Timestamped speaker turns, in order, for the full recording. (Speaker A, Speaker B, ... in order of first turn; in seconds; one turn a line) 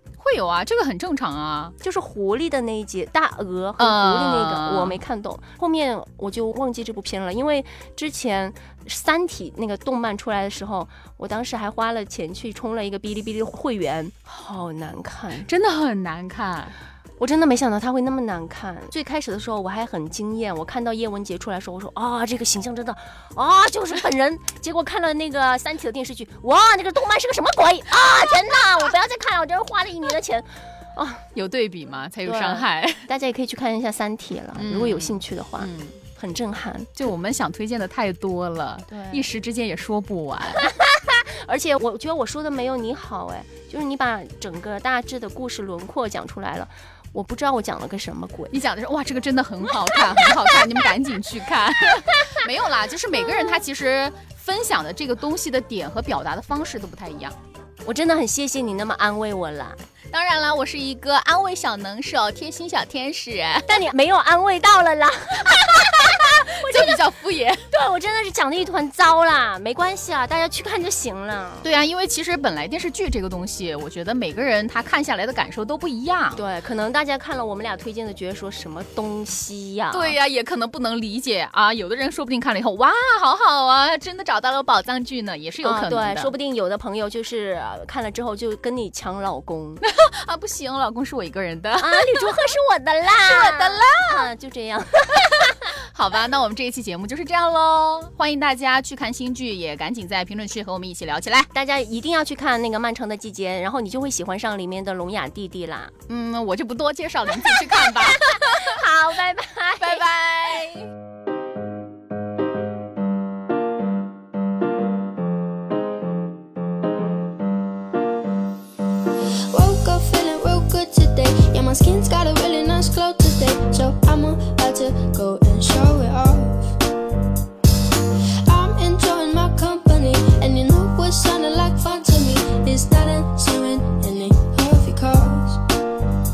Speaker A: 0.2-1.8
Speaker B: 1.8-15.5
Speaker A: 3.8-5.0
Speaker A: 15.5-16.8
Speaker B: 17.2-31.2
Speaker A: 31.3-33.1
Speaker B: 32.2-36.9
Speaker A: 34.5-36.0
Speaker A: 37.0-40.7
Speaker B: 38.9-39.2
Speaker B: 40.6-48.6
Speaker A: 48.5-57.4
Speaker B: 49.9-50.4
Speaker B: 57.8-59.8
Speaker A: 60.1-63.9
Speaker B: 63.7-67.0
Speaker A: 66.6-67.7
Speaker B: 67.7-71.7
Speaker A: 71.6-76.4
Speaker B: 76.3-80.2
Speaker A: 79.9-86.3
Speaker B: 85.6-89.8
Speaker A: 89.8-92.3
Speaker B: 91.8-95.7
Speaker A: 93.2-94.3
Speaker A: 95.8-101.5
Speaker B: 101.5-105.9
Speaker A: 106.1-108.8
Speaker B: 107.4-110.1
Speaker A: 109.8-110.9
Speaker C: 119.5-126.8
Speaker C: 128.4-135.6